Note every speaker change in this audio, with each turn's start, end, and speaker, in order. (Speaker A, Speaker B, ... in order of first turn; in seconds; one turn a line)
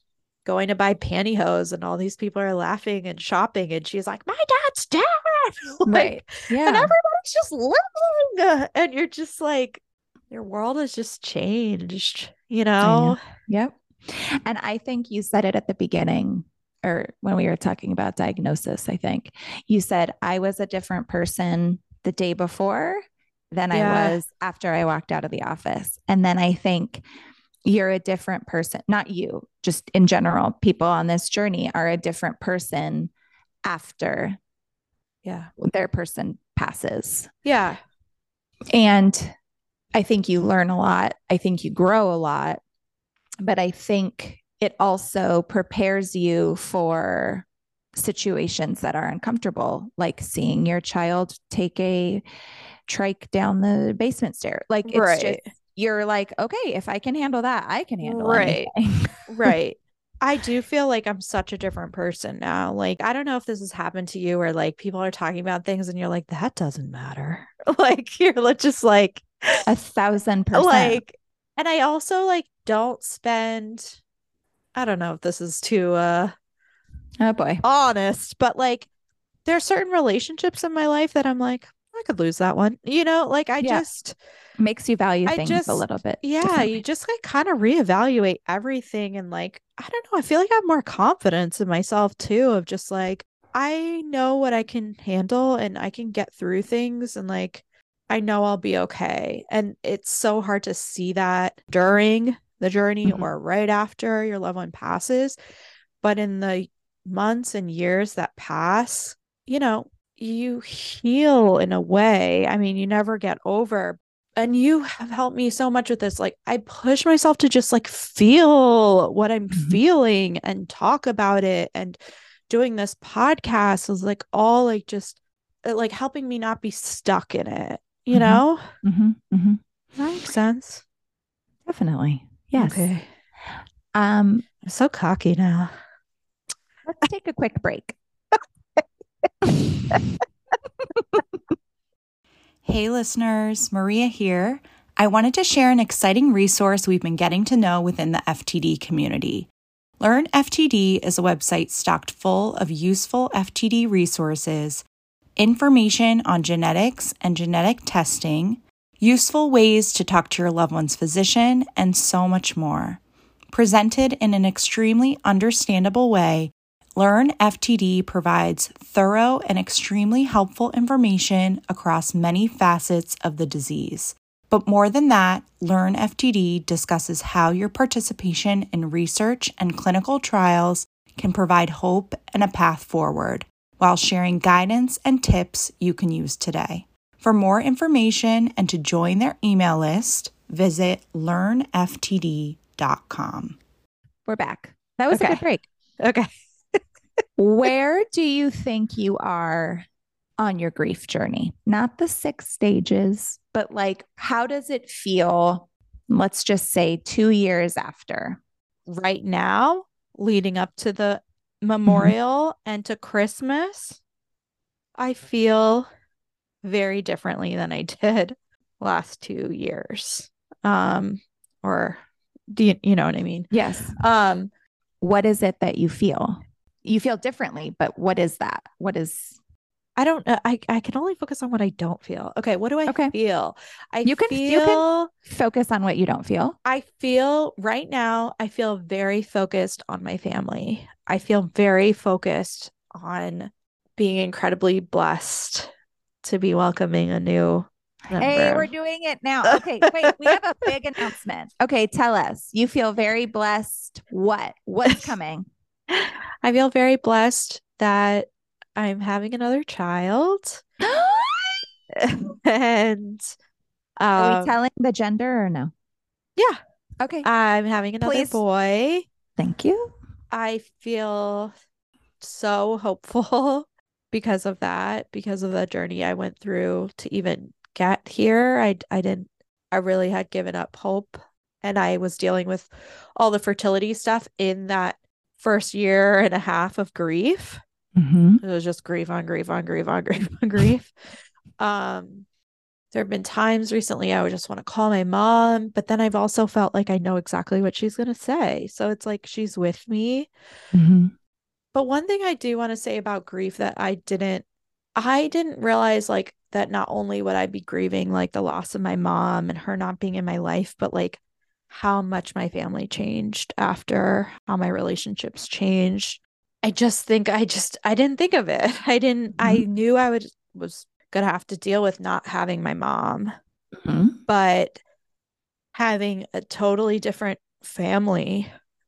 Speaker A: 0.4-13.2
Speaker B: 5.9-6.9
Speaker B: 12.8-27.0
Speaker A: 23.7-24.2
Speaker B: 27.6-33.1
Speaker B: 33.6-34.4
Speaker A: 35.2-35.5
Speaker B: 35.6-37.3
Speaker A: 37.4-37.8
Speaker B: 38.7-39.3
Speaker B: 39.9-42.6
Speaker B: 43.4-52.2
Speaker B: 52.9-59.5
Speaker A: 54.9-55.4
Speaker A: 58.0-58.7
Speaker A: 59.3-69.2
Speaker B: 69.7-71.0
Speaker A: 70.5-74.0
Speaker A: 74.7-76.3
Speaker B: 77.2-77.6
Speaker A: 77.6-78.9
Speaker A: 79.4-84.2
Speaker B: 83.6-83.8
Speaker B: 84.6-86.8
Speaker A: 85.2-105.4
Speaker B: 103.0-103.3
Speaker A: 106.0-122.0
Speaker B: 119.5-119.8
Speaker A: 122.5-128.6
Speaker B: 128.1-129.6
Speaker A: 129.9-130.8
Speaker B: 131.7-132.9
Speaker A: 132.5-133.1
Speaker B: 133.9-134.4
Speaker A: 134.6-135.7
Speaker B: 136.8-138.0
Speaker C: 142.7-154.8
Speaker C: 155.4-193.6
Speaker B: 194.2-195.7
Speaker A: 195.1-195.4
Speaker A: 196.0-196.8
Speaker B: 197.4-199.8
Speaker B: 200.4-208.4
Speaker A: 208.9-214.0
Speaker B: 211.9-212.1
Speaker A: 215.0-215.9
Speaker A: 216.6-222.0
Speaker A: 222.5-224.5
Speaker B: 223.5-223.9
Speaker B: 225.0-229.3
Speaker A: 229.9-235.1
Speaker B: 232.9-233.1
Speaker B: 234.0-236.6
Speaker A: 236.6-245.7
Speaker A: 246.2-248.7
Speaker B: 248.1-255.5
Speaker A: 249.4-250.4
Speaker A: 255.9-260.6
Speaker B: 260.8-261.6
Speaker A: 261.9-263.3
Speaker A: 264.0-264.6
Speaker B: 264.1-265.7
Speaker B: 267.0-267.3
Speaker A: 267.2-269.1
Speaker B: 268.0-268.4
Speaker B: 269.4-269.9
Speaker A: 270.3-271.5
Speaker A: 272.2-287.6
Speaker B: 287.9-288.4
Speaker A: 288.4-290.9
Speaker A: 291.6-292.2
Speaker A: 292.9-300.3
Speaker B: 300.7-301.1
Speaker A: 301.7-323.3
Speaker B: 319.4-319.6
Speaker B: 323.8-324.2
Speaker A: 324.3-324.8
Speaker A: 325.7-328.5